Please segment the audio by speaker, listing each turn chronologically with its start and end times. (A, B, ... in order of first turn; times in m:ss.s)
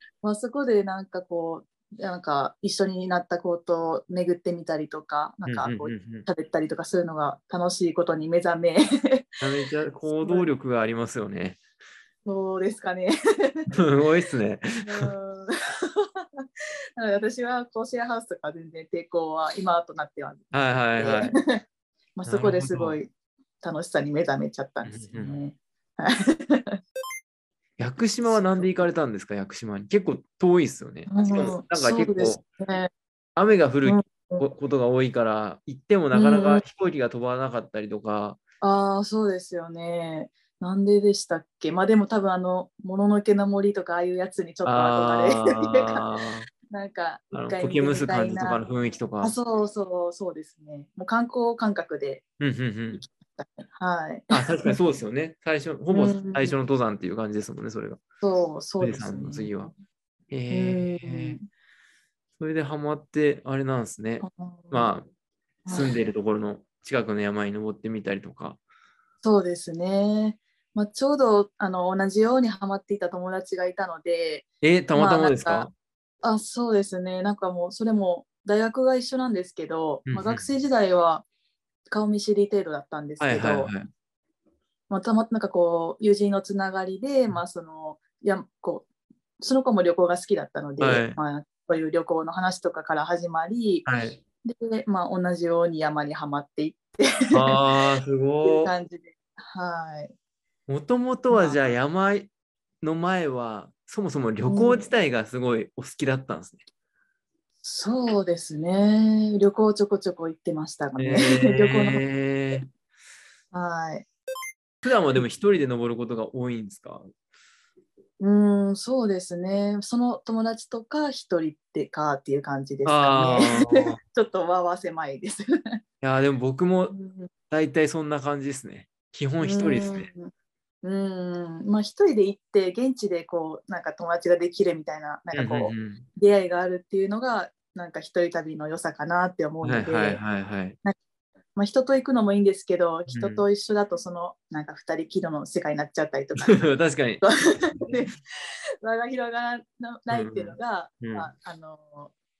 0:00.2-0:09.4 A
0:05.4-0:06.2 B
0:09.4-0:11.6 B
0:10.1-0:10.5 A
0:12.2-0:13.7 A
0:13.7-0:15.1 B
0:14.8-0:16.4 A
0:17.0-0:21.6 A
0:20.5-0:21.3 B
0:22.2-0:23.1 A
0:22.2-0:23.0 B
0:23.6-0:26.8 A
0:24.8-0:25.4 B
0:27.8-0:32.4 B
0:28.2-0:28.8 A
0:31.1-0:32.9 A
0:33.4-0:38.4 B
0:33.8-0:34.4 A
0:36.1-0:36.6 A
0:38.6-0:46.0 A
0:44.6-0:46.5 B
0:46.7-0:48.6 A
0:47.3-0:49.3 B
0:49.2-0:52.2 A
0:52.4-0:53.0 B
0:52.9-0:54.8 A
0:54.3-0:58.0 B
0:55.9-0:56.6 A
0:58.2-0:59.7 A
0:58.8-0:59.7 B
1:00.3-1:01.4 B
1:00.5-1:01.4 A
1:02.4-1:05.1 B
1:04.2-1:04.9 A
1:05.6-1:05.9 A
1:05.7-1:08.6 B
1:09.2-1:15.7 A
1:14.6-1:15.7 B
1:16.2-1:21.2 A
1:20.1-1:20.5 B
1:21.9-1:23.7 A
1:23.2-1:23.9 B
1:24.9-1:28.9 A
1:29.4-1:33.9 A
1:30.8-1:31.2 B
1:33.8-1:34.2 B
1:34.4-1:37.6 A
1:37.3-1:38.7 B
1:38.4-1:40.1 A
1:40.7-1:42.3 B
1:41.3-1:41.7 A
1:42.8-1:46.6 B
1:44.4-1:44.8 A
1:47.6-1:52.0 A
1:51.0-1:52.7 B
1:53.5-1:54.1 A
1:54.8-1:57.0 B
1:58.2-2:05.5 A
2:02.8-2:04.0 B
2:06.0-2:06.9 B
2:06.9-2:07.3 A
2:07.5-2:10.1 B
2:09.4-2:10.3 A
2:10.8-2:20.2 A
2:15.3-2:16.0 B
2:19.6-2:20.8 B
2:21.6-2:26.7 A
2:23.1-2:23.4 B
2:26.4-2:28.0 B
2:27.2-2:28.2 A
2:28.8-2:32.1 A
2:30.1-2:31.3 B